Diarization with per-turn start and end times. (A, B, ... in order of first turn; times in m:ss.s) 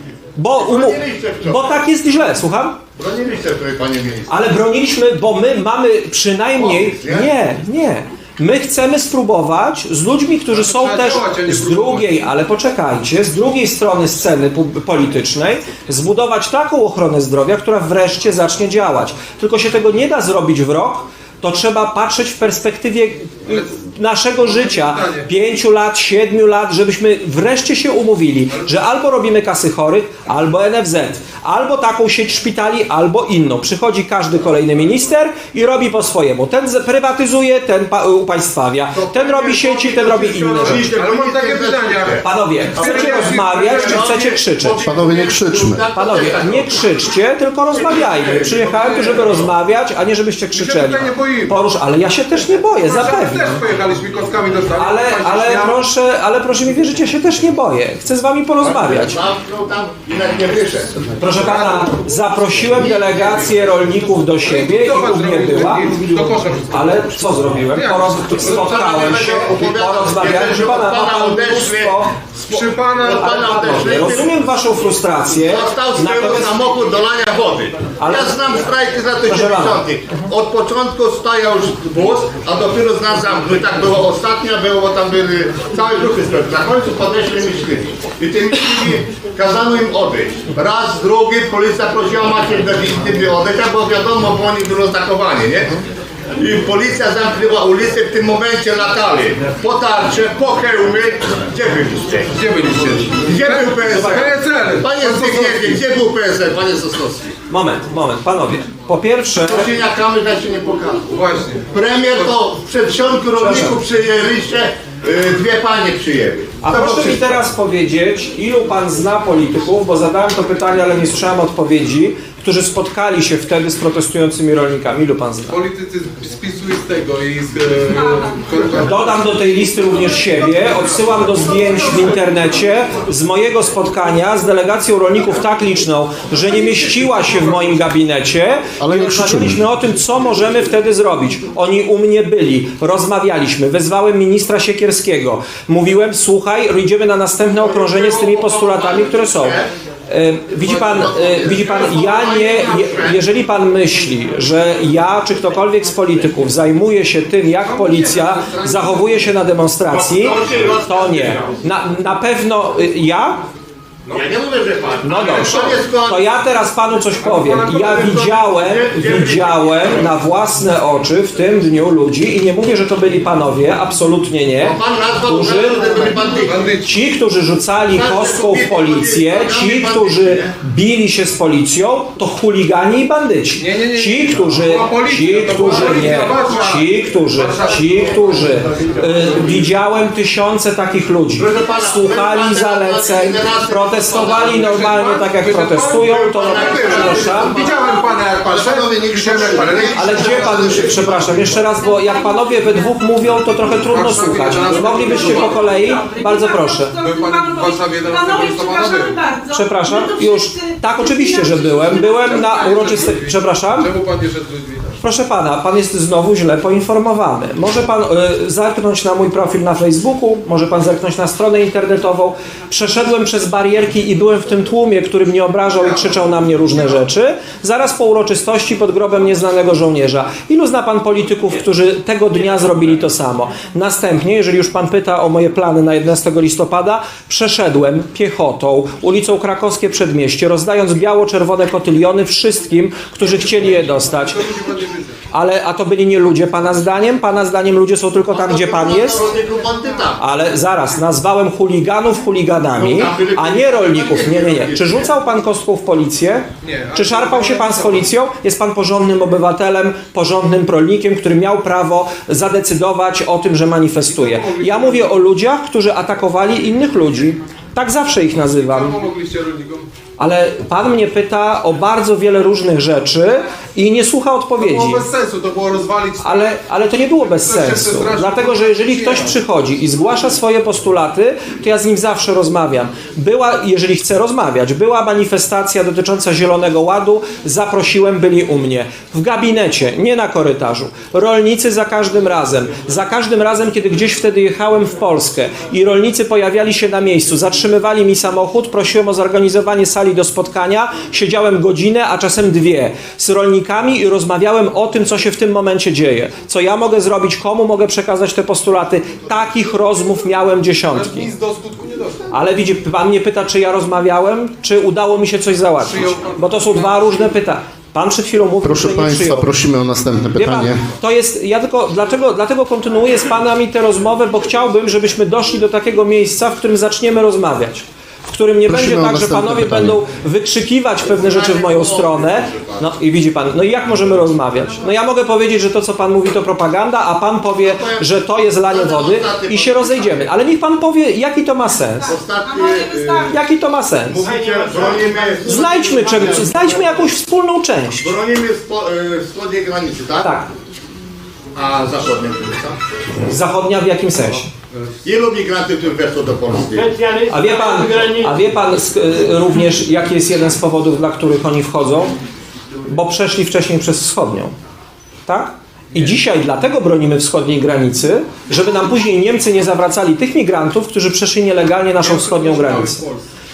0:00.4-0:02.8 A
0:00.6-0:01.8 B
0:03.0-0:04.3 B
0:04.3-0:40.9 A
0:06.6-0:07.3 B
0:10.5-0:12.2 C
0:24.4-0:25.3 C
0:38.9-0:46.8 B
0:39.8-0:44.2 C
0:42.2-0:44.8 A
0:44.8-0:45.8 D
0:45.9-0:53.6 A
0:47.7-0:49.4 B
0:50.5-0:51.6 C
0:52.7-0:55.8 C
0:54.8-0:59.2 A
0:58.6-1:01.0 B
1:01.0-1:05.9 A
1:01.4-1:02.0 C
1:02.7-1:03.5 B
1:04.4-1:08.8 C
1:06.7-1:12.1 A
1:08.4-1:12.0 B
1:12.4-1:14.1 C
1:12.5-1:14.3 B
1:13.1-1:16.6 A
1:15.4-1:35.8 B
1:18.0-1:18.4 A
1:19.3-1:19.8 A
1:36.4-1:42.3 B
1:42.3-1:45.8 C
1:43.2-1:47.3 B
1:43.8-1:44.3 A
1:47.5-1:49.7 A
1:49.4-1:51.0 B
1:51.1-1:51.7 C
1:51.7-1:57.3 B
1:53.4-1:53.7 A
1:56.6-2:05.6 A
2:05.5-2:09.4 C
2:08.8-2:43.4 A
2:10.3-2:11.1 C
2:11.6-2:12.3 C
2:16.4-2:17.8 C
2:18.8-2:19.6 D
2:27.6-2:29.7 B
2:30.8-2:33.2 B
2:39.9-2:41.5 B
2:44.1-2:46.2 B
2:45.0-2:56.1 A
2:47.2-2:47.9 C
2:47.7-2:50.0 B
2:54.6-2:56.7 B
2:56.4-2:56.9 C
2:56.8-3:17.6 A
2:57.9-3:00.5 B
3:03.6-3:08.1 C
3:11.4-3:14.7 B
3:14.5-3:20.6 C
3:16.1-3:21.1 B
3:19.9-3:27.0 A
3:20.3-3:21.6 D
3:21.8-3:22.5 E
3:23.9-3:25.7 C
3:25.0-3:32.1 E
3:27.0-3:29.3 C
3:29.5-3:33.9 A
3:32.1-3:35.0 C
3:35.0-4:04.4 A
3:45.8-3:46.2 C
4:04.0-4:05.2 C
4:05.3-4:09.2 A
4:08.3-4:10.2 B
4:10.2-4:29.0 A
4:12.7-4:15.1 B
4:16.6-4:18.1 C
4:24.0-4:25.2 C
4:28.3-4:29.9 C
4:30.2-4:35.0 A
4:34.6-4:36.6 C
4:36.2-5:11.3 A
4:37.2-4:39.4 C
5:10.9-5:12.3 C
5:12.3-5:19.6 A
5:15.8-5:17.3 C
5:18.6-5:20.8 D
5:20.3-5:42.1 A
5:28.6-5:30.0 D
5:31.0-5:32.9 B
5:37.6-5:40.4 B
5:42.1-5:43.4 B
5:42.4-5:43.3 E
5:43.3-5:44.2 A
5:44.1-5:46.5 B
5:44.3-5:46.3 E
5:45.4-5:48.1 A
5:48.0-5:50.3 B
5:50.2-5:50.5 A
5:51.5-5:52.8 B
5:53.3-5:54.5 A
5:55.0-5:56.9 B
5:56.9-5:57.2 E
5:57.2-6:02.1 A
5:57.9-5:58.2 E
6:02.9-6:04.5 A
6:05.2-6:13.0 A
6:12.0-6:13.2 C